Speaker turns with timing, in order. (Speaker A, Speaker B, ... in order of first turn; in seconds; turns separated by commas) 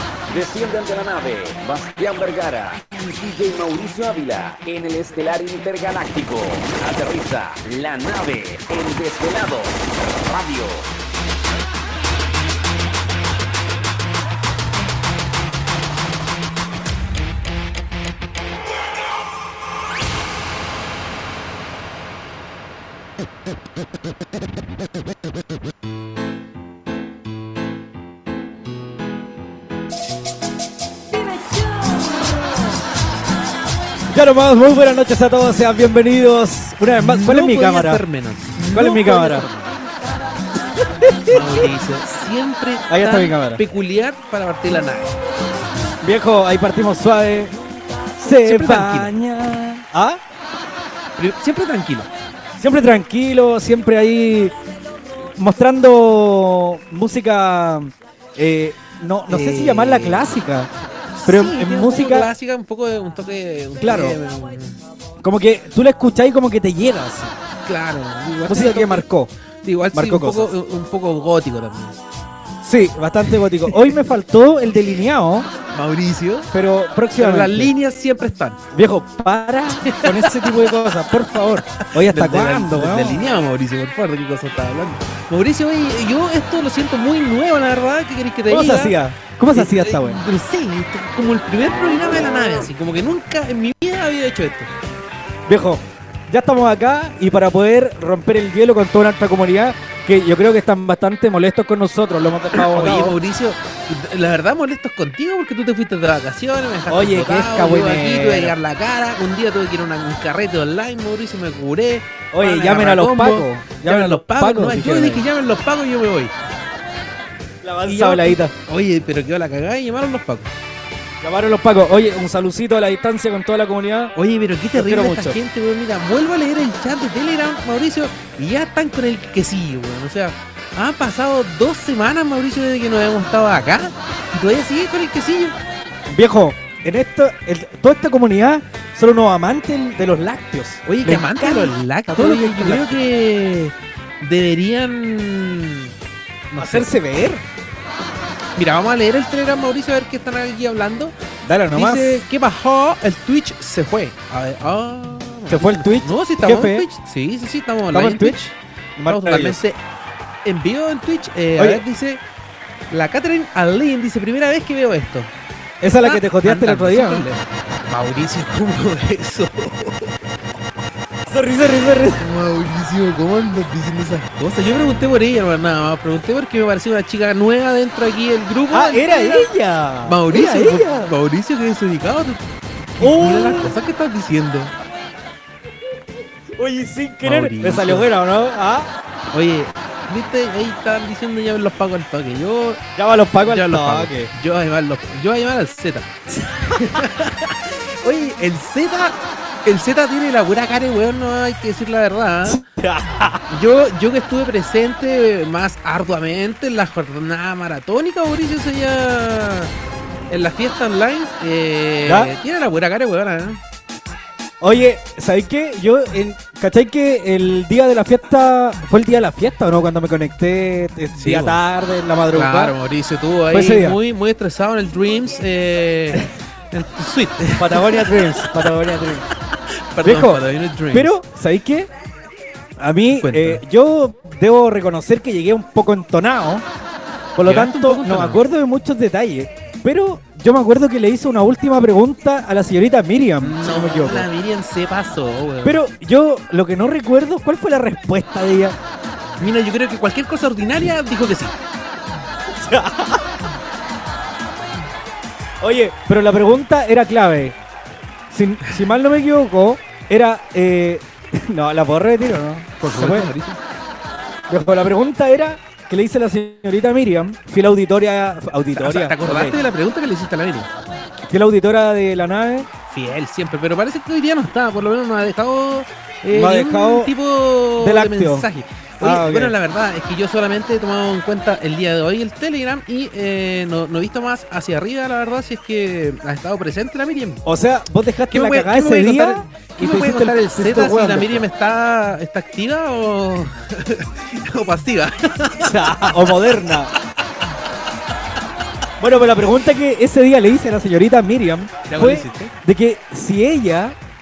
Speaker A: 0.3-10.9, Speaker B: 34.1-38.0, Speaker C: 36.9-39.7, Speaker B: 38.7-39.5, Speaker B: 40.9-41.7, Speaker C: 41.3-45.2, Speaker B: 42.9-43.6, Speaker B: 46.0-47.5, Speaker B: 48.2-50.2, Speaker C: 48.4-49.1, Speaker C: 51.2-52.1, Speaker B: 52.6-54.5, Speaker B: 55.4-60.7, Speaker C: 59.3-60.3, Speaker C: 61.1-64.8, Speaker B: 61.3-62.3, Speaker B: 63.8-64.2, Speaker B: 65.2-67.4, Speaker C: 67.6-69.0, Speaker B: 68.5-69.3, Speaker C: 69.6-72.0, Speaker B: 69.9-70.5, Speaker B: 72.6-75.5, Speaker C: 75.7-76.5, Speaker B: 76.5-77.7, Speaker C: 77.2-78.6, Speaker B: 78.7-83.3, Speaker C: 79.9-80.9, Speaker C: 81.9-89.0, Speaker B: 88.5-90.2, Speaker C: 89.5-94.7, Speaker B: 95.5-103.2, Speaker C: 102.6-116.3, Speaker B: 106.9-108.5, Speaker B: 112.3-115.2, Speaker B: 117.6-118.5, Speaker C: 117.9-120.5, Speaker B: 121.2-124.1, Speaker C: 124.1-135.6, Speaker B: 124.7-125.4, Speaker B: 136.1-143.0, Speaker C: 140.8-145.9, Speaker B: 146.5-147.4, Speaker C: 146.6-146.9, Speaker C: 148.6-151.1, Speaker B: 151.4-152.2, Speaker C: 151.7-158.5, Speaker B: 155.5-156.8, Speaker B: 157.9-158.4, Speaker B: 159.0-159.6, Speaker C: 159.1-159.8, Speaker C: 160.4-162.2, Speaker B: 161.6-161.8, Speaker C: 162.9-165.3, Speaker B: 165.8-167.3, Speaker C: 165.9-170.1, Speaker B: 171.2-172.2, Speaker C: 172.2-179.5, Speaker B: 178.7-181.1, Speaker C: 180.1-184.7, Speaker B: 183.0-183.8, Speaker B: 186.6-188.9, Speaker C: 187.2-188.1, Speaker C: 189.3-192.8, Speaker B: 192.9-194.3, Speaker C: 193.4-196.1, Speaker C: 196.7-202.6, Speaker B: 202.4-203.4, Speaker C: 203.5-209.7, Speaker C: 210.3-213.6, Speaker B: 212.1-212.3, Speaker B: 214.6-222.8, Speaker C: 221.2-221.6, Speaker C: 222.3-228.7, Speaker B: 223.5-224.0, Speaker B: 227.6-229.2, Speaker C: 229.7-231.1, Speaker B: 230.0-231.9, Speaker B: 232.8-236.6, Speaker C: 233.1-233.6, Speaker B: 237.3-244.3, Speaker C: 237.4-238.4, Speaker C: 243.4-245.8, Speaker B: 245.6-248.8, Speaker C: 249.4-251.6, Speaker B: 252.5-253.3, Speaker B: 255.6-257.6, Speaker B: 258.3-263.3, Speaker C: 262.8-263.6, Speaker B: 264.5-269.6, Speaker C: 268.8-270.7, Speaker B: 271.3-272.7, Speaker C: 272.9-287.4, Speaker B: 276.3-277.1, Speaker B: 277.8-278.5, Speaker B: 279.0-279.5, Speaker B: 287.4-291.4, Speaker C: 288.3-296.5, Speaker B: 295.6-296.9, Speaker B: 299.0-303.9, Speaker C: 301.9-302.5